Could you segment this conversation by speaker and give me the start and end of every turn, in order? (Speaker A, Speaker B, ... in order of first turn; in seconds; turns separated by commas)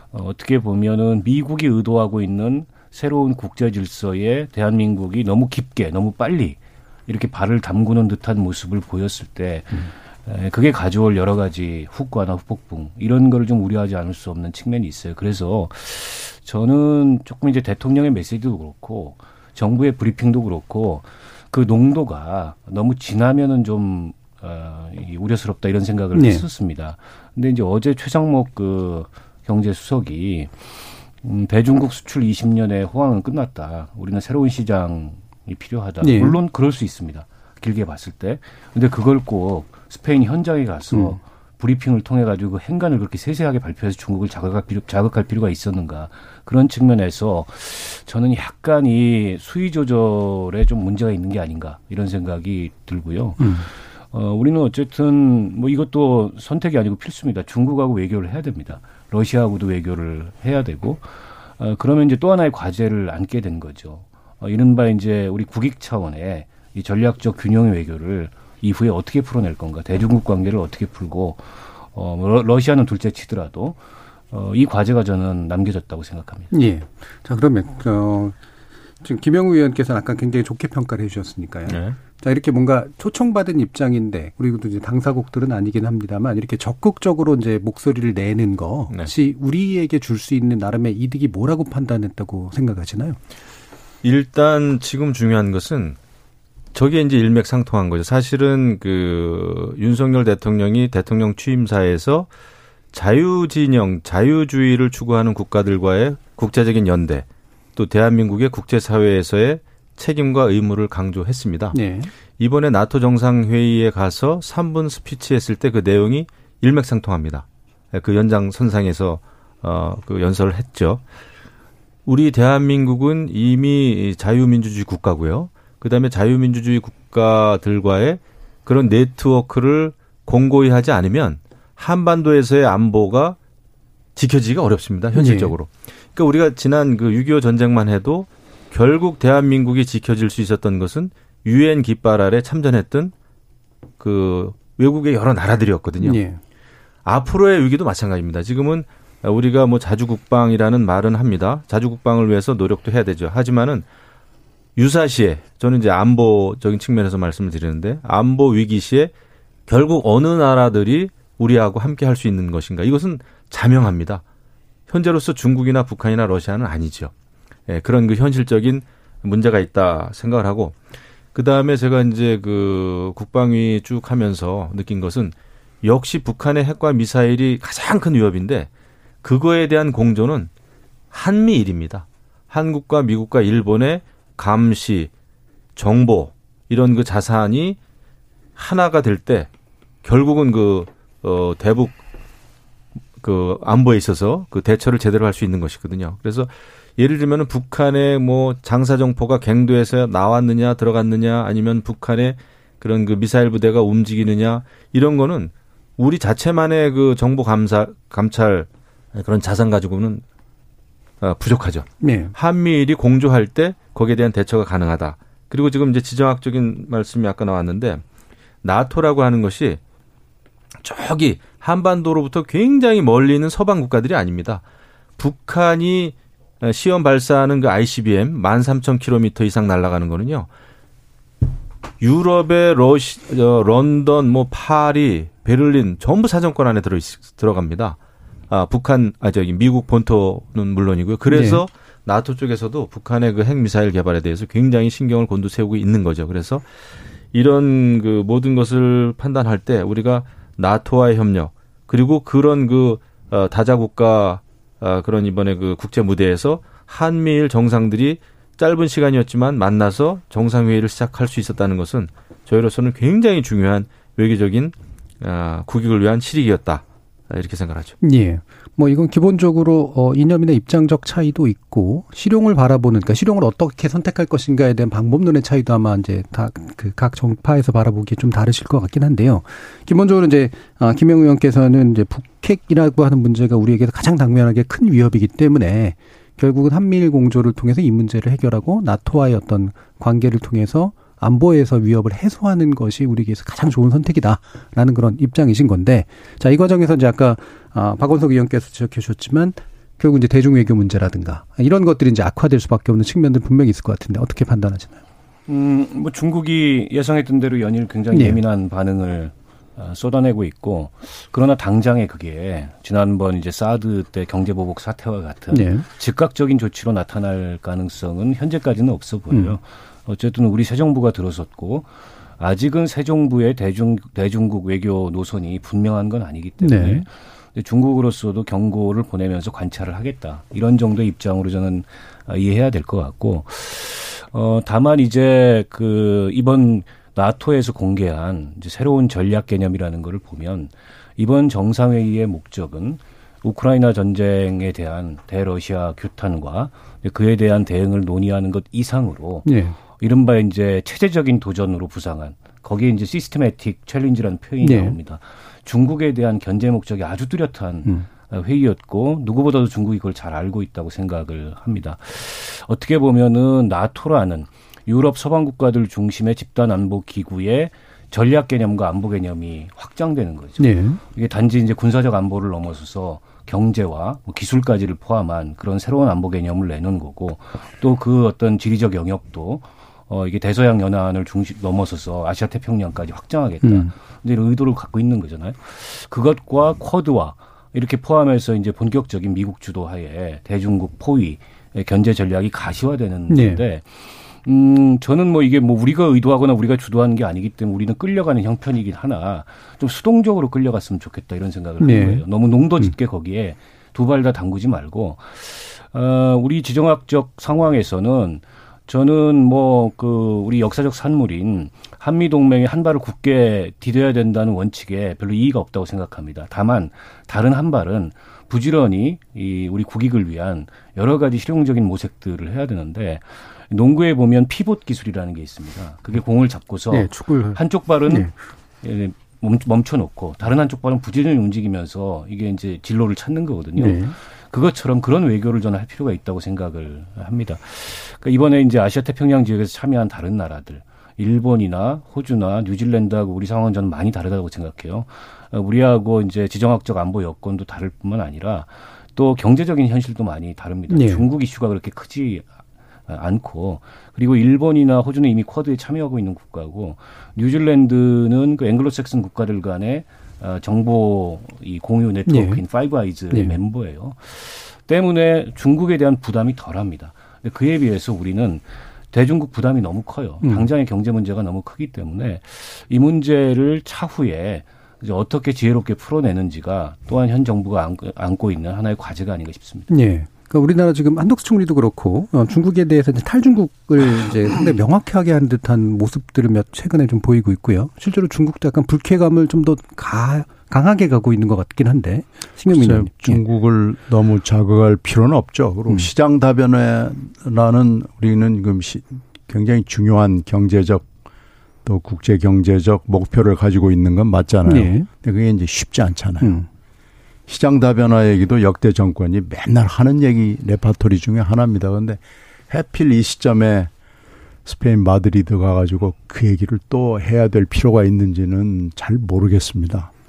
Speaker A: 0.1-73.8, Speaker B: 26.1-26.4, Speaker B: 36.0-36.4, Speaker B: 40.9-41.2, Speaker B: 53.4-53.7, Speaker A: 74.3-76.5, Speaker B: 76.5-78.3, Speaker B: 79.0-93.2, Speaker C: 81.7-82.0, Speaker C: 94.0-96.0, Speaker C: 96.7-102.3, Speaker C: 102.9-111.8, Speaker B: 111.7-112.1, Speaker C: 112.4-121.0, Speaker C: 122.0-133.4, Speaker C: 134.2-143.1, Speaker B: 135.1-135.5, Speaker C: 144.0-146.2, Speaker B: 146.0-146.4, Speaker C: 147.0-153.8, Speaker C: 154.8-159.1, Speaker C: 159.7-164.2, Speaker C: 164.9-167.1, Speaker C: 167.7-170.8, Speaker C: 171.3-178.7, Speaker C: 179.2-180.5, Speaker C: 181.1-185.1, Speaker C: 185.7-187.8, Speaker C: 188.6-189.5, Speaker C: 190.0-192.0, Speaker C: 193.2-210.2, Speaker C: 211.2-218.0, Speaker B: 212.0-212.3, Speaker C: 218.6-219.8, Speaker C: 220.8-224.6, Speaker C: 225.2-230.5, Speaker C: 232.0-238.0, Speaker C: 238.5-246.6, Speaker B: 241.3-241.6, Speaker C: 247.3-267.9, Speaker B: 268.0-305.0, Speaker A: 305.5-428.3, Speaker B: 308.1-308.4, Speaker B: 315.5-315.9, Speaker B: 319.3-319.6, Speaker B: 326.6-327.0, Speaker B: 349.4-349.8, Speaker B: 354.6-354.9, Speaker B: 370.6-371.0, Speaker B: 383.6-383.9, Speaker B: 393.3-393.6, Speaker B: 401.8-402.2, Speaker B: 426.9-428.3, Speaker A: 428.8-452.5, Speaker B: 433.8-434.1, Speaker B: 450.9-451.2, Speaker A: 453.1-479.9, Speaker B: 462.3-462.6, Speaker B: 463.3-463.6, Speaker B: 470.4-470.7, Speaker B: 479.9-493.4, Speaker D: 492.7-501.1, Speaker D: 501.8-506.6, Speaker B: 504.6-505.1, Speaker B: 506.4-506.7, Speaker D: 507.5-513.9, Speaker D: 514.6-520.1